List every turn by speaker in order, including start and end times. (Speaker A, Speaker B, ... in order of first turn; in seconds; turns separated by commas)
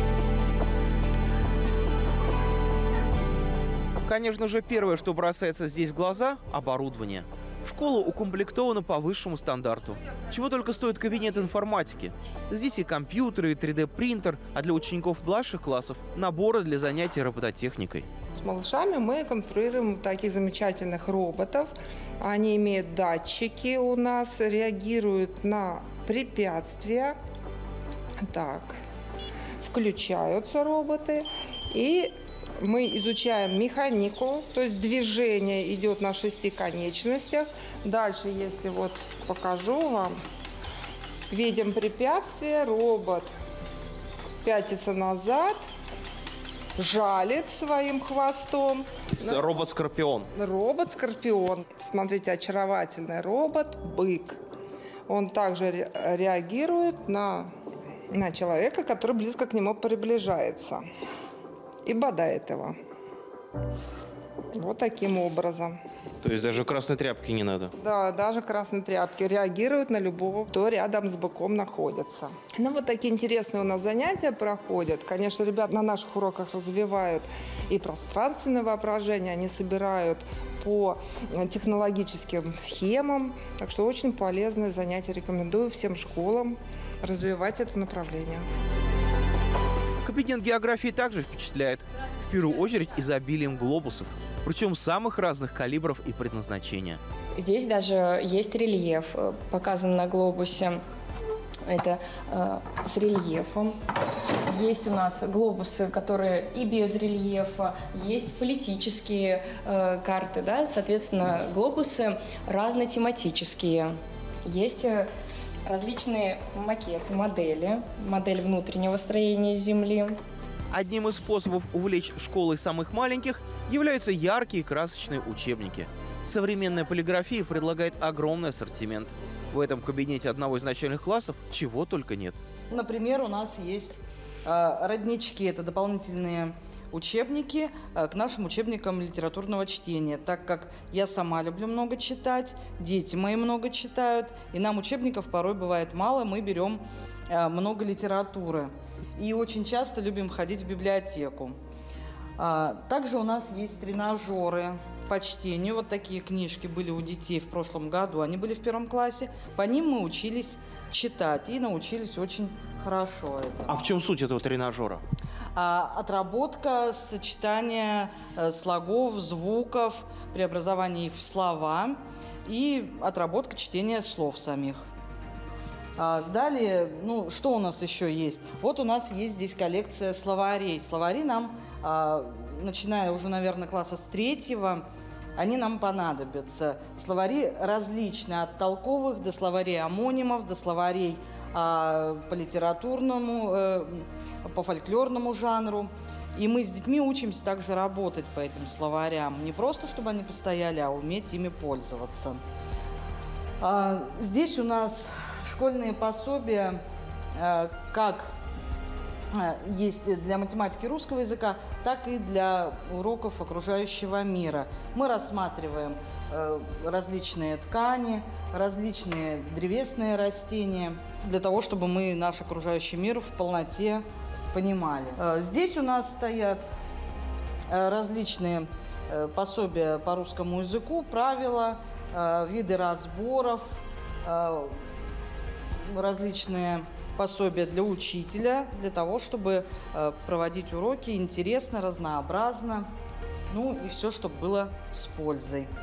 Speaker A: 4.0-18.1, Speaker B: 18.4-27.1, Speaker B: 28.2-28.8, Speaker B: 29.6-40.1, Speaker B: 41.3-43.3, Speaker B: 44.4-45.6, Speaker B: 46.8-49.4, Speaker A: 49.2-50.3, Speaker B: 50.3-54.4, Speaker B: 55.1-57.5, Speaker B: 58.1-60.8, Speaker B: 61.8-62.7, Speaker B: 64.5-65.8, Speaker A: 66.2-67.7, Speaker B: 67.8-88.4, Speaker A: 90.0-97.0, Speaker C: 97.4-100.8, Speaker C: 101.7-103.8, Speaker C: 104.4-113.9, Speaker C: 114.5-115.1, Speaker C: 115.7-120.2, Speaker A: 120.7-132.4, Speaker D: 132.7-151.6, Speaker D: 152.4-163.8, Speaker A: 163.7-165.0, Speaker D: 165.5-174.8, Speaker D: 176.0-184.8, Speaker D: 185.4-202.4, Speaker D: 203.6-206.8, Speaker D: 207.3-208.3, Speaker D: 209.3-226.7, Speaker D: 227.7-234.7, Speaker D: 235.9-242.9, Speaker D: 243.5-245.7